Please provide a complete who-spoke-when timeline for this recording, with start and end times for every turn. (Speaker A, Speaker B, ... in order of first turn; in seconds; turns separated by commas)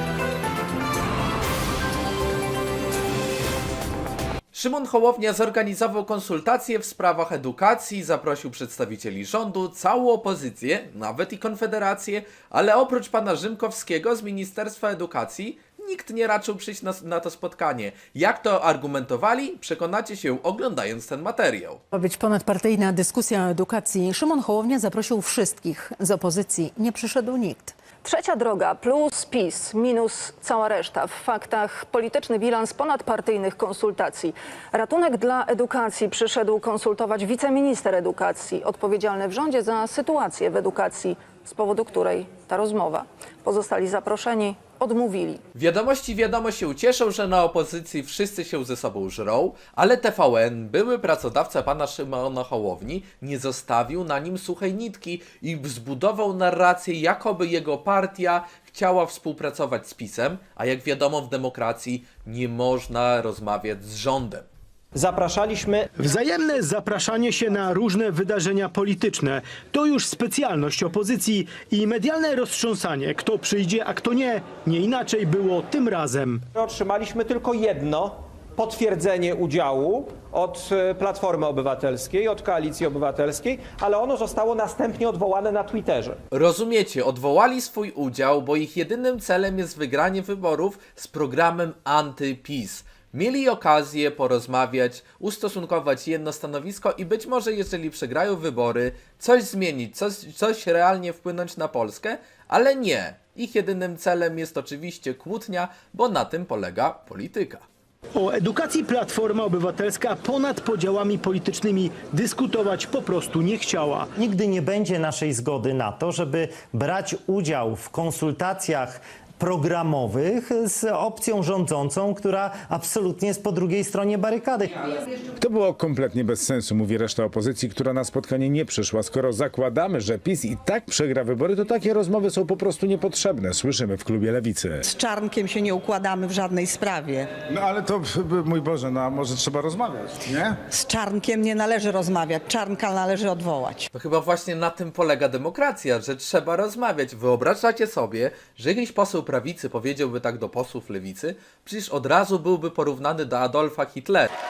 Speaker A: 4.5-21.8, Speaker B: 21.9-27.7, Speaker C: 28.0-45.4, Speaker A: 45.5-64.5, Speaker D: 64.9-65.9, Speaker E: 66.0-76.4, Speaker D: 76.5-86.2, Speaker A: 86.3-107.6, Speaker E: 108.1-114.1, Speaker F: 114.1-124.9, Speaker G: 125.3-134.8, Speaker H: 134.8-137.3, Speaker G: 137.5-140.6, Speaker H: 140.7-143.9, Speaker A: 143.9-154.3